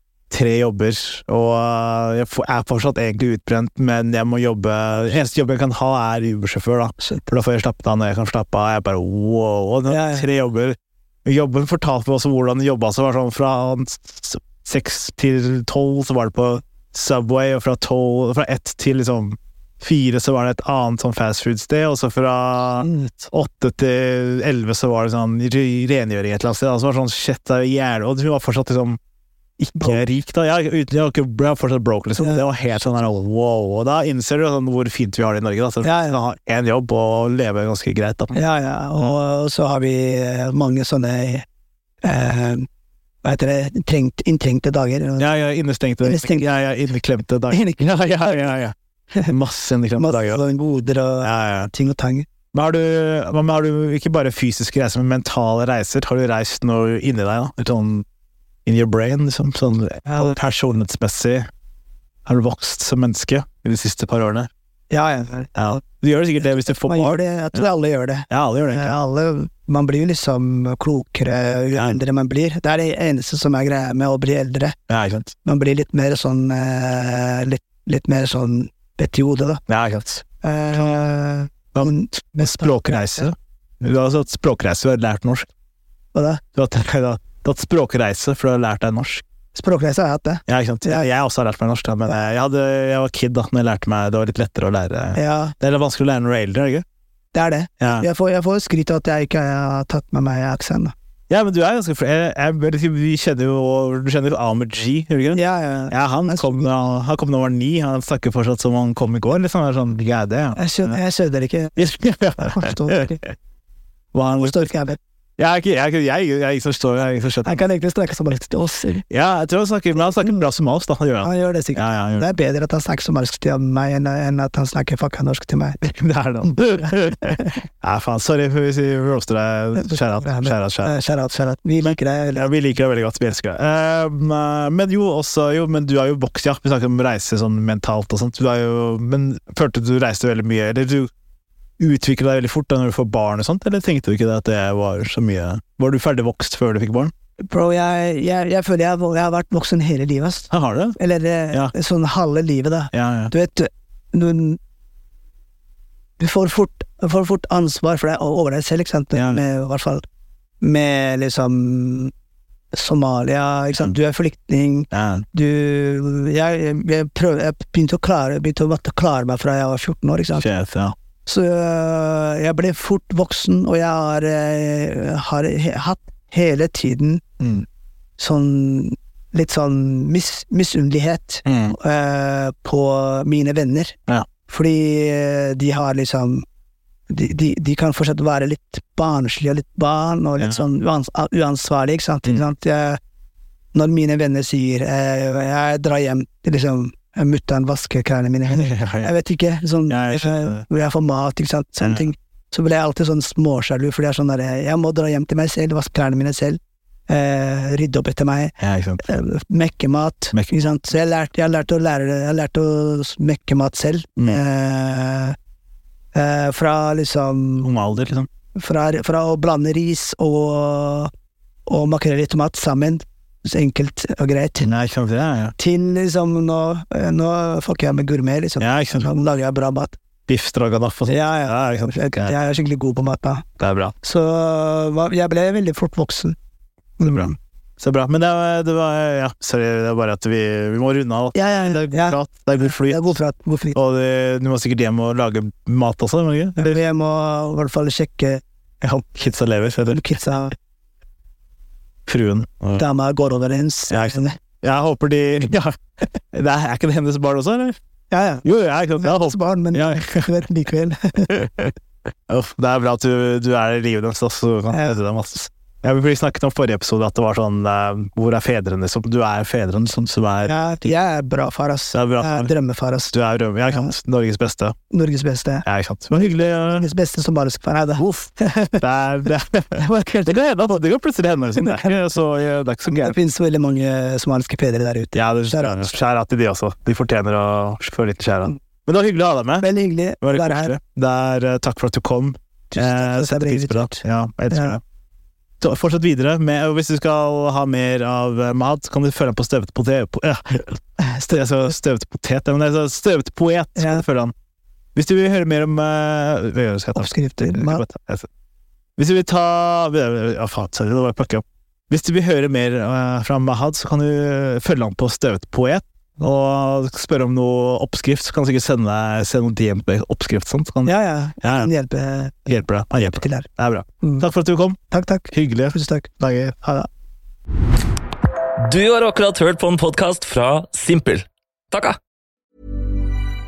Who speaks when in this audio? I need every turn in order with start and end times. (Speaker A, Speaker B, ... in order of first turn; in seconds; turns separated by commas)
Speaker A: 0.3-29.0, Speaker B: 9.9-10.3, Speaker B: 22.8-23.3, Speaker A: 29.6-38.4, Speaker B: 35.8-36.2, Speaker B: 38.3-41.5, Speaker B: 42.0-42.7, Speaker B: 43.2-45.3, Speaker A: 45.2-48.8, Speaker B: 46.0-46.5, Speaker B: 47.5-47.8, Speaker A: 49.3-50.4, Speaker B: 50.0-52.3, Speaker A: 51.2-51.7, Speaker A: 52.5-58.1, Speaker A: 58.7-61.5, Speaker B: 60.1-60.4, Speaker A: 62.3-64.5, Speaker B: 64.9-65.5, Speaker A: 65.5-67.6, Speaker B: 66.5-74.8, Speaker A: 68.3-69.0, Speaker A: 74.9-75.3, Speaker B: 75.4-79.6, Speaker A: 79.7-80.2, Speaker B: 80.4-83.3, Speaker A: 81.7-85.5, Speaker B: 86.1-86.4, Speaker A: 86.5-89.2, Speaker B: 89.5-91.1, Speaker A: 90.5-96.8, Speaker B: 95.2-95.5, Speaker B: 97.3-100.9, Speaker A: 97.8-98.1, Speaker A: 101.3-111.0, Speaker B: 105.3-106.7, Speaker B: 110.6-111.8, Speaker A: 111.8-113.3, Speaker B: 112.4-113.2, Speaker A: 114.1-114.7, Speaker B: 114.4-115.0, Speaker A: 115.4-117.6, Speaker B: 117.5-119.0, Speaker A: 119.1-122.3, Speaker B: 121.2-125.8, Speaker A: 125.8-130.9, Speaker B: 126.8-127.5, Speaker B: 129.8-132.5, Speaker A: 131.8-141.1, Speaker A: 141.8-147.1, Speaker B: 147.5-154.6, Speaker A: 150.5-151.0, Speaker A: 152.9-153.3, Speaker B: 156.2-160.0, Speaker A: 159.2-159.4, Speaker B: 160.6-162.1, Speaker B: 162.7-170.5, Speaker A: 164.9-165.3, Speaker A: 170.4-171.0, Speaker B: 171.3-177.2, Speaker A: 177.4-177.7, Speaker B: 178.2-184.0, Speaker A: 181.5-181.8, Speaker B: 184.5-186.4, Speaker B: 187.1-193.0, Speaker B: 193.7-215.4, Speaker A: 198.5-199.1, Speaker A: 199.9-200.7, Speaker A: 201.8-202.1, Speaker A: 208.6-209.0, Speaker A: 210.3-210.7, Speaker B: 216.1-217.7, Speaker A: 217.6-218.3, Speaker B: 218.6-221.1, Speaker B: 221.7-224.7, Speaker A: 224.6-225.6, Speaker B: 225.6-230.0, Speaker A: 228.6-229.1, Speaker A: 230.3-232.4, Speaker B: 231.1-233.4, Speaker A: 233.6-233.9, Speaker B: 234.0-236.4, Speaker B: 237.0-237.4, Speaker A: 237.0-243.2, Speaker B: 241.3-243.8, Speaker A: 243.7-246.8, Speaker B: 246.6-248.4, Speaker A: 248.8-250.4, Speaker B: 249.9-250.5, Speaker A: 252.1-252.8, Speaker B: 252.8-254.4, Speaker A: 253.9-255.8, Speaker A: 256.3-257.8, Speaker B: 258.1-258.5, Speaker A: 258.4-260.4, Speaker B: 259.0-261.4, Speaker A: 261.3-261.7, Speaker A: 262.3-270.9, Speaker B: 270.5-273.1, Speaker A: 271.9-272.5, Speaker A: 273.1-274.8, Speaker B: 274.9-275.6, Speaker A: 275.6-276.9, Speaker B: 276.8-278.8, Speaker A: 278.0-283.2, Speaker B: 279.8-280.4, Speaker B: 281.6-281.9, Speaker B: 282.9-285.9, Speaker A: 285.1-294.8, Speaker B: 289.6-290.7, Speaker B: 292.7-294.8, Speaker A: 295.6-304.3, Speaker B: 303.8-304.0, Speaker A: 304.9-308.3, Speaker B: 306.9-307.8, Speaker A: 309.0-321.7, Speaker B: 320.9-322.5, Speaker A: 322.5-324.8, Speaker B: 323.1-323.5, Speaker B: 324.9-326.9, Speaker A: 325.3-326.6, Speaker C: 328.6-332.0